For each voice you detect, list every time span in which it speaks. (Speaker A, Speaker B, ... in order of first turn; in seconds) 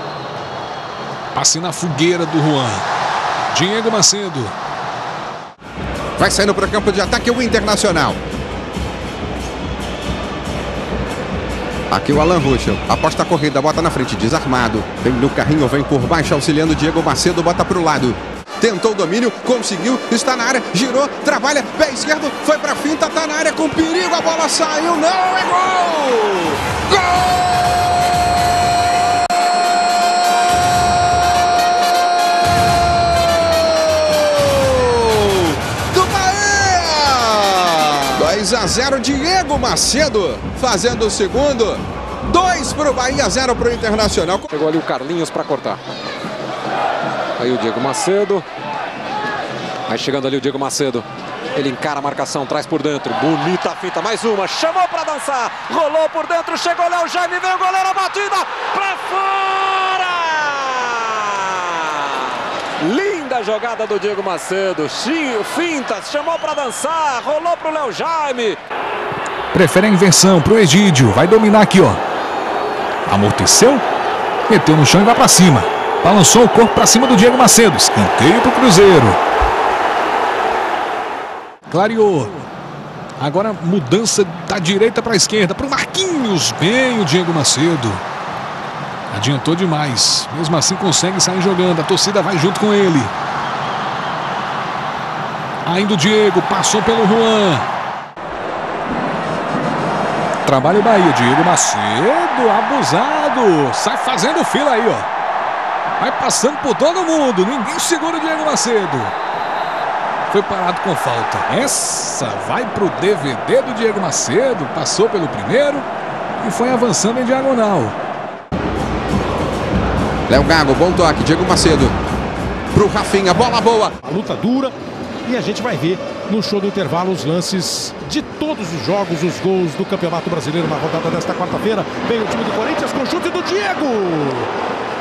Speaker A: 1.3-2.8, 3.5-4.5, 69.5-72.0, 73.1-73.8, 74.5-79.2, 81.7-82.5, 83.2-88.0, 89.1-93.1, 95.6-97.7, 100.4-105.1, 106.0-109.1, 110.3-115.9, 116.4-117.9
Speaker B: 6.2-6.9, 7.5-8.1, 11.9-27.5, 34.4-44.4, 120.3-121.9, 122.7-123.9
Speaker C: 44.5-45.8, 47.4-48.4, 49.9-51.0, 51.5-61.9, 62.8-68.6
Speaker D: 124.0-124.7, 125.2-134.5